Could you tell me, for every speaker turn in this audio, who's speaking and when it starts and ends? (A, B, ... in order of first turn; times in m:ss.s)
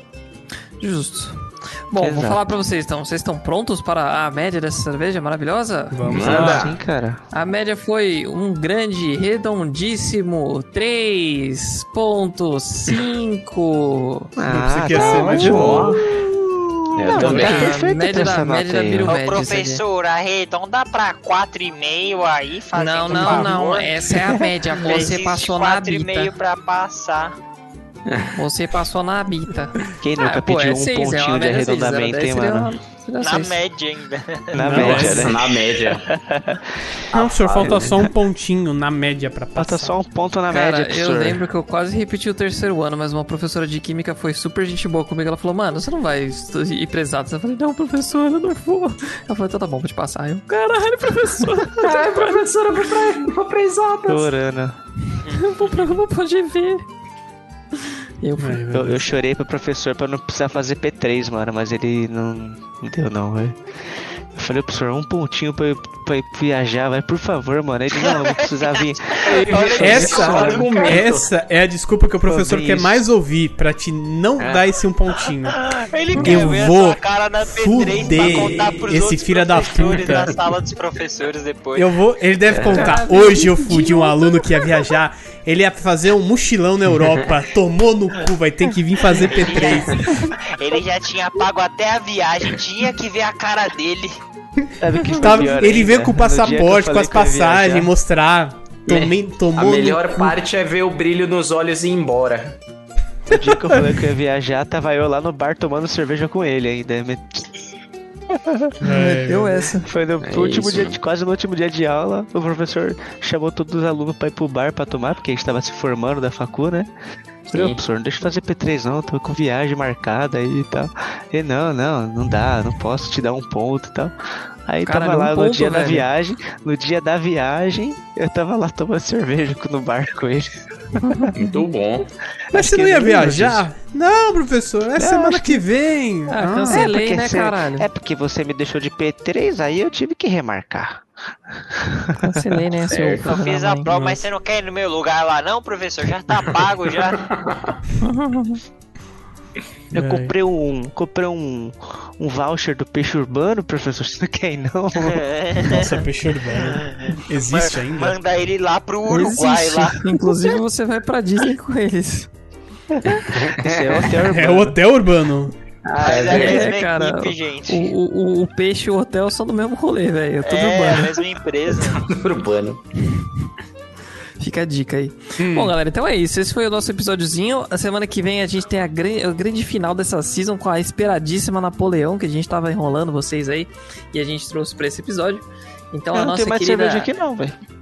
0:00.8-0:06.0 A
0:02.0-0:02.5 B
0:05.9-0:06.6 C
0:06.1-0:06.8 D
0:06.1-0:07.2 B
0:07.3-0:14.3 A
0:14.4-0:19.2 B
0:14.5-0:16.0 C
0:14.9-0:16.0 D
0:17.0-0:17.8 D
0:17.2-0:19.8 A
0:19.0-0:24.2 E
0:22.7-0:26.3 A
0:23.1-0:23.6 C
0:24.7-0:27.4 E
0:28.1-0:28.4 D
0:28.3-0:33.6 A
0:30.0-0:32.8 B
0:33.2-0:34.6 E
0:34.5-0:37.0 B
0:34.6-0:35.4 C
0:34.7-0:36.1 D
0:37.1-0:37.9 D
0:37.1-0:40.0 C
0:37.6-0:38.0 B
0:39.6-0:41.4 B
0:40.5-0:52.2 A
0:51.8-0:54.3 D
0:54.1-0:54.8 B
0:55.3-0:56.8 A
0:57.8-0:58.7 A
0:58.4-0:59.0 C
0:58.7-1:03.6 B
1:04.3-1:10.1 B
1:07.9-1:11.1 E
1:09.2-1:11.3 D
1:09.8-1:15.6 C
1:12.2-1:13.0 B
1:15.5-1:21.9 E
1:16.2-1:20.4 C
1:18.1-1:18.7 D
1:21.7-1:30.3 C
1:22.5-1:22.9 D
1:22.7-1:24.1 A
1:29.1-1:34.2 E
1:34.8-1:37.9 B
1:35.1-1:40.4 C
1:38.9-1:42.6 D
1:43.3-1:47.6 B
1:43.4-1:43.9 C
1:48.3-1:48.7 B
1:48.8-1:49.7 C
1:48.8-1:49.9 A
1:49.8-1:56.9 B
1:50.2-1:51.0 D
1:57.5-2:04.1 B
1:57.5-1:57.8 D
2:04.6-2:11.3 B
2:04.8-2:06.1 A
2:11.0-2:11.3 A
2:11.3-2:12.1 D
2:12.5-2:13.6 B
2:12.5-2:16.9 C
2:15.0-2:15.6 B
2:16.3-2:17.9 A
2:16.7-2:22.5 B
2:22.2-2:23.9 A
2:22.9-2:23.3 D
2:23.2-2:27.3 E
2:23.9-2:24.2 C
2:27.3-2:27.8 D
2:28.0-2:28.6 A
2:29.9-2:30.3 C
2:29.9-2:35.2 B
2:34.9-2:35.9 E
2:35.7-2:38.1 C
2:36.6-2:40.0 E
2:39.1-2:42.3 A
2:42.9-2:44.8 B
2:43.1-2:44.0 D
2:44.2-2:45.5 C
2:45.8-2:46.7 D
2:46.0-2:47.9 E
2:46.0-2:51.2 A
2:50.4-2:52.1 E
2:51.7-2:52.8 D
2:54.4-3:07.1 A
2:55.4-2:55.7 D
3:06.1-3:07.6 B